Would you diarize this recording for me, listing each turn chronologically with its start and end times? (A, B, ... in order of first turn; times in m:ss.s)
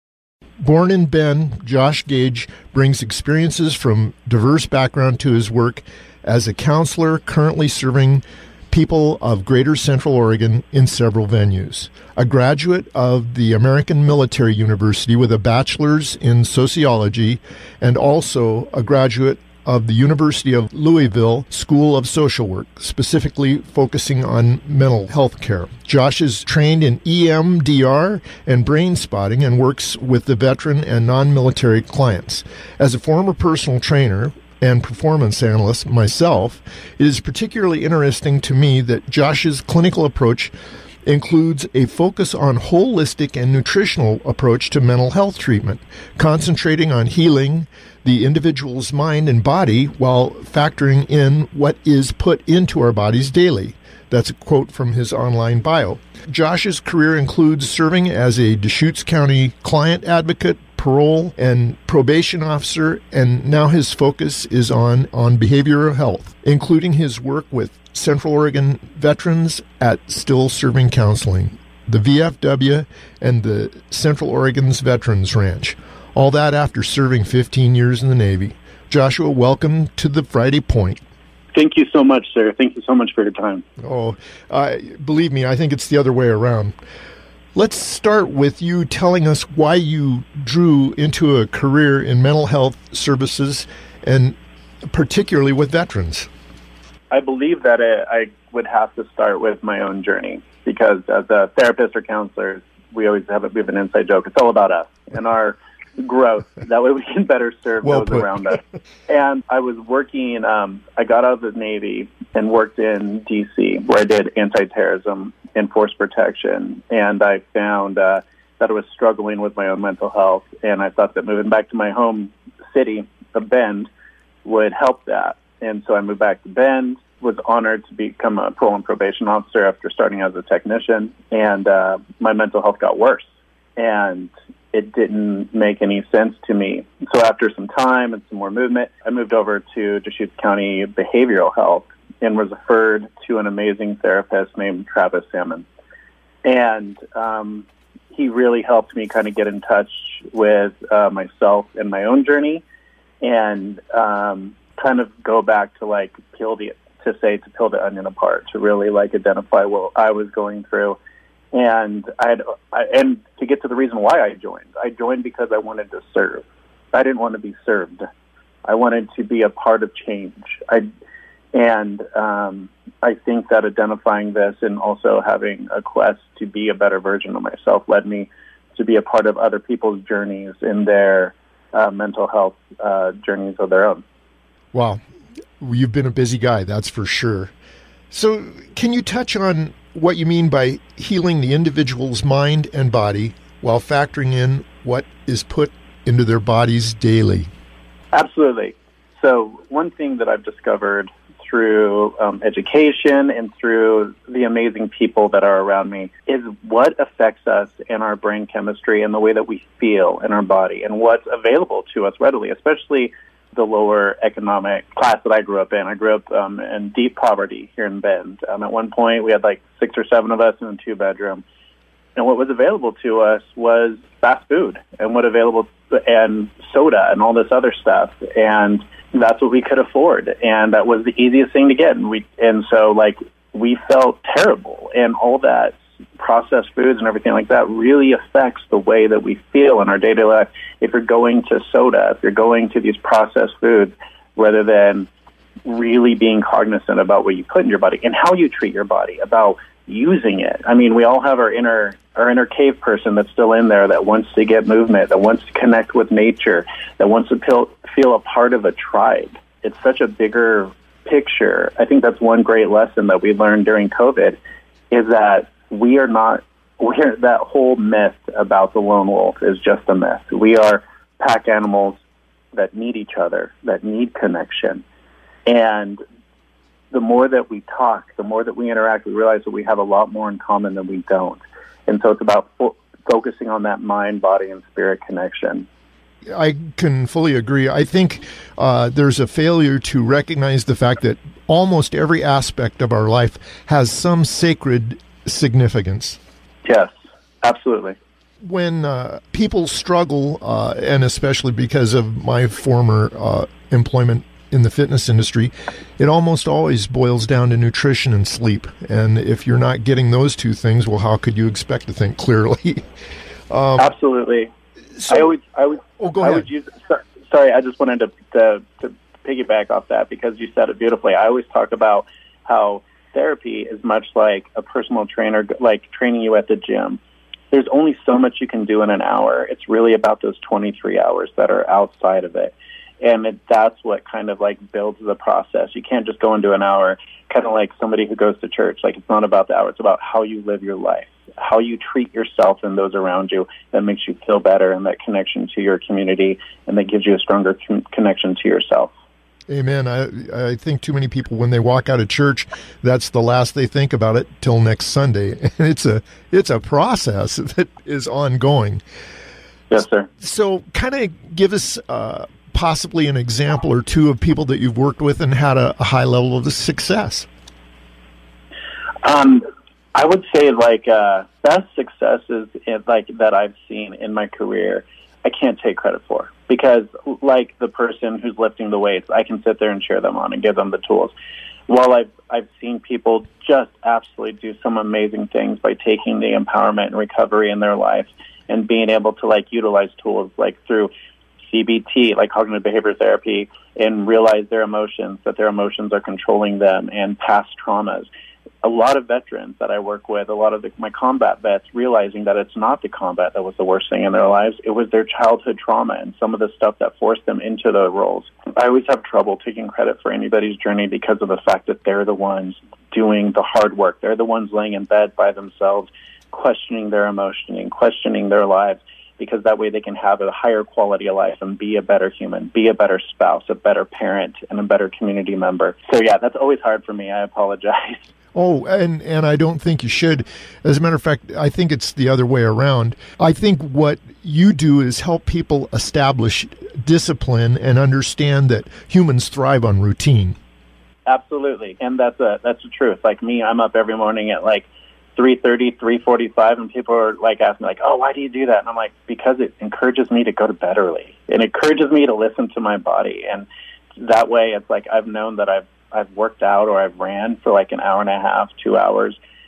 0:00.6-0:40.5 A
0:41.0-1:21.0 A
1:21.5-1:23.6 B
1:23.8-1:26.8 A
1:27.5-1:34.4 A
1:34.9-1:36.3 A
1:37.1-2:03.9 B
1:47.8-1:48.5 A
2:04.4-2:25.6 B
2:26.4-2:32.6 B
2:33.2-2:41.0 B
2:41.5-2:48.1 B
2:48.6-2:50.9 B
2:51.5-3:04.0 B
3:04.7-3:05.0 A
3:05.6-3:07.5 A
3:08.1-3:17.5 A
3:18.1-3:41.4 B
3:42.2-4:05.1 B
4:05.6-4:24.4 B
4:24.9-4:32.0 B
4:32.5-4:34.8 B
4:35.4-4:36.0 B
4:36.9-4:45.7 B
4:46.3-4:56.2 A
4:56.6-4:58.0 B
4:58.4-5:12.8 A
5:13.5-5:13.9 A
5:13.8-5:14.5 B
5:15.0-5:15.3 A
5:15.1-5:27.0 B
5:16.0-5:16.4 A
5:27.5-5:48.9 B
5:49.5-5:58.8 A
5:59.7-6:00.1 B
6:00.2-6:07.3 A
6:09.0-6:21.1 B
6:21.7-6:38.1 B
6:38.6-7:08.1 B
7:08.3-7:20.4 A
7:21.0-7:39.2 B